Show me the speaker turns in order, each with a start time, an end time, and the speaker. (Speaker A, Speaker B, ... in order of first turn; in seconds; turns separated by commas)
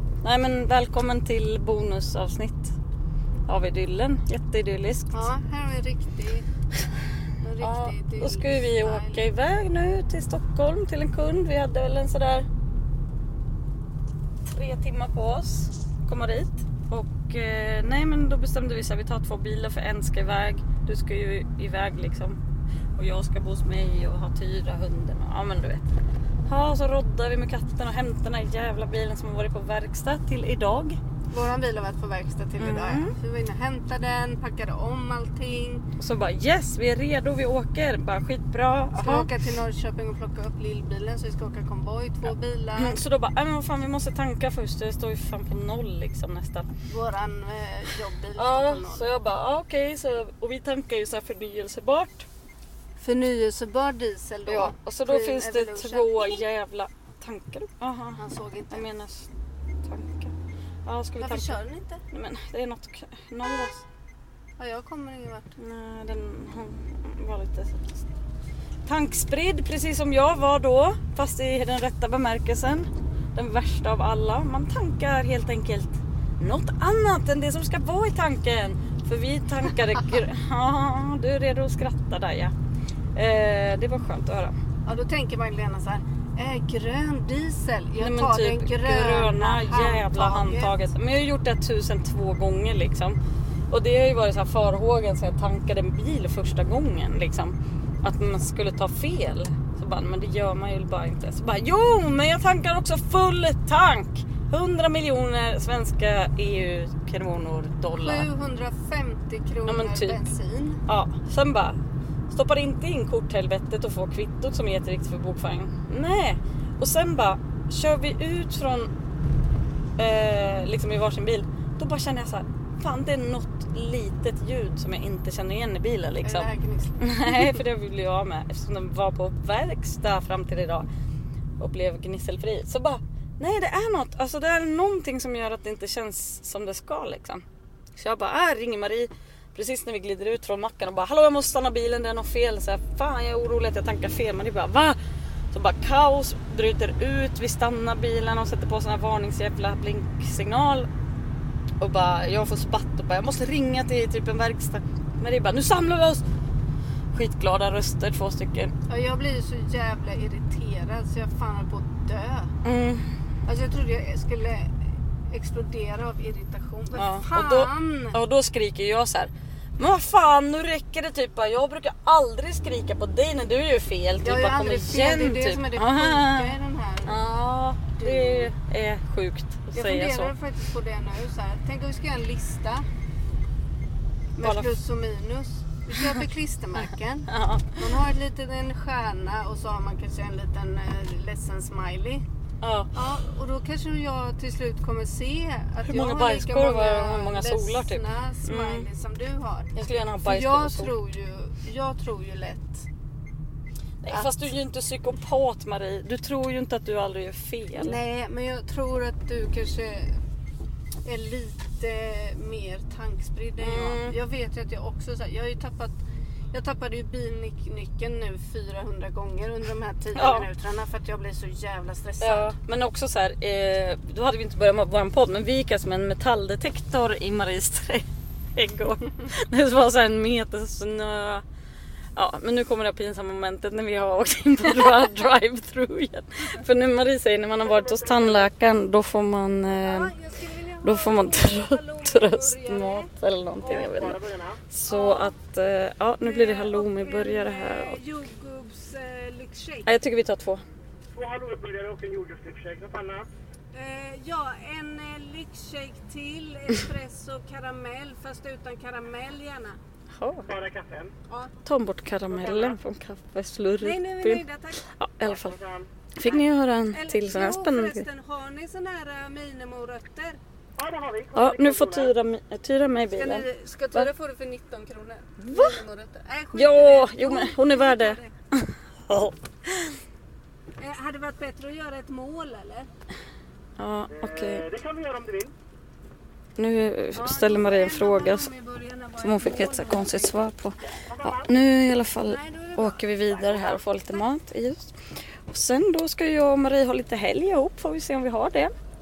Speaker A: 0.2-2.8, Speaker A: 3.5-5.3, Speaker B: 5.1-6.5, Speaker B: 7.4-9.2, Speaker A: 7.6-12.5, Speaker A: 14.5-22.4, Speaker A: 23.0-25.9, Speaker A: 26.5-31.0, Speaker B: 31.3-35.8, Speaker A: 32.6-33.1, Speaker A: 36.0-39.3, Speaker B: 39.0-43.0, Speaker A: 42.8-46.7, Speaker B: 46.9-49.1, Speaker A: 48.4-52.3, Speaker B: 53.0-56.4, Speaker A: 54.5-58.2, Speaker B: 58.2-58.9, Speaker A: 58.7-59.3, Speaker A: 59.8-60.3, Speaker A: 60.9-61.6, Speaker B: 61.2-62.0, Speaker A: 62.1-63.8, Speaker B: 64.6-65.6, Speaker A: 65.6-68.0, Speaker A: 68.9-82.5, Speaker A: 83.2-84.5, Speaker B: 84.8-90.7, Speaker A: 88.0-93.2, Speaker A: 93.7-108.3, Speaker B: 108.0-110.8, Speaker A: 109.7-110.2, Speaker A: 110.9-111.8, Speaker A: 112.3-118.9, Speaker A: 120.0-130.9, Speaker B: 126.2-127.6, Speaker A: 131.6-137.4, Speaker A: 138.0-145.0, Speaker A: 145.5-150.9, Speaker A: 151.8-156.2, Speaker A: 157.1-158.7, Speaker B: 158.9-162.5, Speaker A: 162.7-163.1, Speaker B: 163.5-164.8, Speaker B: 165.3-168.2, Speaker A: 167.0-180.3, Speaker B: 174.2-177.2, Speaker B: 178.0-178.5, Speaker B: 179.7-182.8, Speaker B: 184.4-192.2, Speaker A: 184.4-184.7, Speaker A: 186.8-187.8, Speaker A: 192.6-192.9, Speaker B: 192.9-202.9, Speaker A: 195.8-198.9, Speaker A: 199.8-200.9, Speaker A: 204.0-208.0, Speaker B: 207.8-210.1, Speaker B: 211.1-216.0, Speaker A: 213.6-214.1, Speaker B: 216.5-222.5, Speaker A: 220.2-220.5, Speaker A: 222.2-231.4, Speaker A: 232.2-240.1, Speaker B: 239.8-243.1, Speaker A: 240.8-248.2, Speaker B: 244.9-245.3, Speaker B: 246.2-249.9, Speaker A: 249.9-250.6, Speaker C: 251.2-253.2, Speaker B: 253.7-259.8, Speaker A: 260.2-260.6, Speaker A: 261.6-265.6, Speaker B: 263.8-264.8, Speaker A: 266.2-268.1, Speaker B: 266.9-270.4, Speaker C: 270.8-271.2, Speaker A: 271.3-274.1, Speaker B: 273.1-278.3, Speaker A: 275.4-275.8, Speaker A: 276.6-279.9, Speaker B: 280.8-282.9, Speaker A: 283.8-284.8, Speaker C: 285.1-285.4, Speaker A: 286.6-288.5, Speaker B: 287.1-290.4, Speaker A: 289.2-294.9, Speaker B: 292.2-293.8, Speaker A: 295.5-298.7